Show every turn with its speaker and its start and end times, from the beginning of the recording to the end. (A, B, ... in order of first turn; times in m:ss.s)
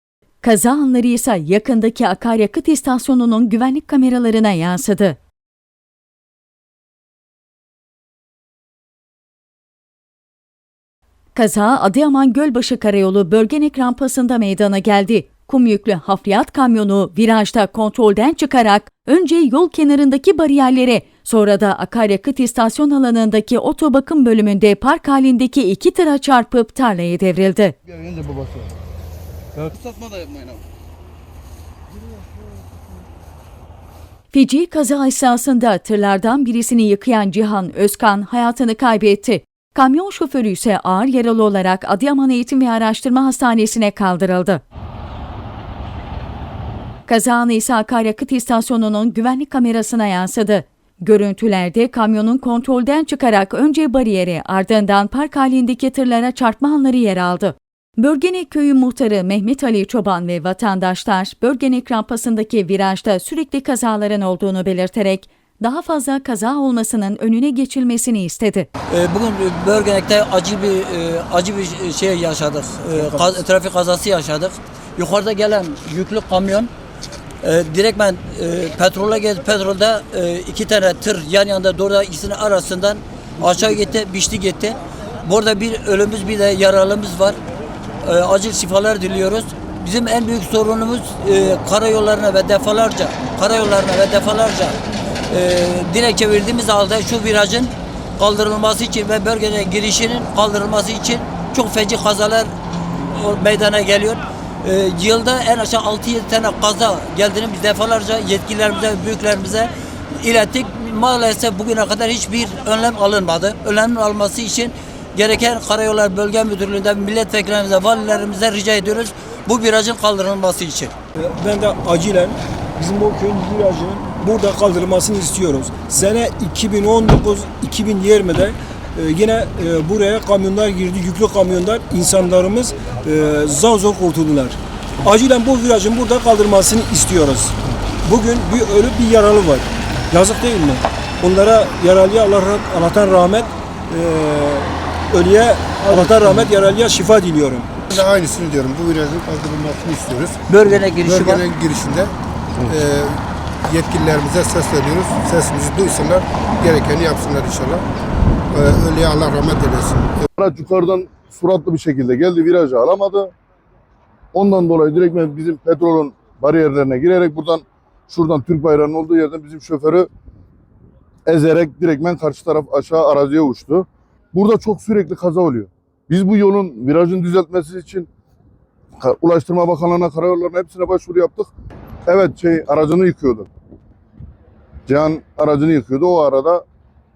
0:00.4-0:05.2 A
0:11.3-0:27.8 A
0:27.9-0:28.6 B
0:29.6-0:30.6 B
0:34.3-0:44.6 A
0:47.1-1:08.7 A
1:08.9-1:16.7 C
1:17.4-1:27.4 C
1:28.0-1:34.8 C
1:35.3-1:42.5 C
1:43.1-2:00.9 C
2:01.1-2:27.7 D
2:27.9-2:37.8 B
2:30.5-2:31.4 C
2:38.5-2:40.2 B
2:40.4-2:43.3 E
2:44.3-2:50.1 E
2:51.3-2:58.1 E
2:59.0-3:01.5 E
3:02.0-3:03.5 E
3:04.9-3:06.6 E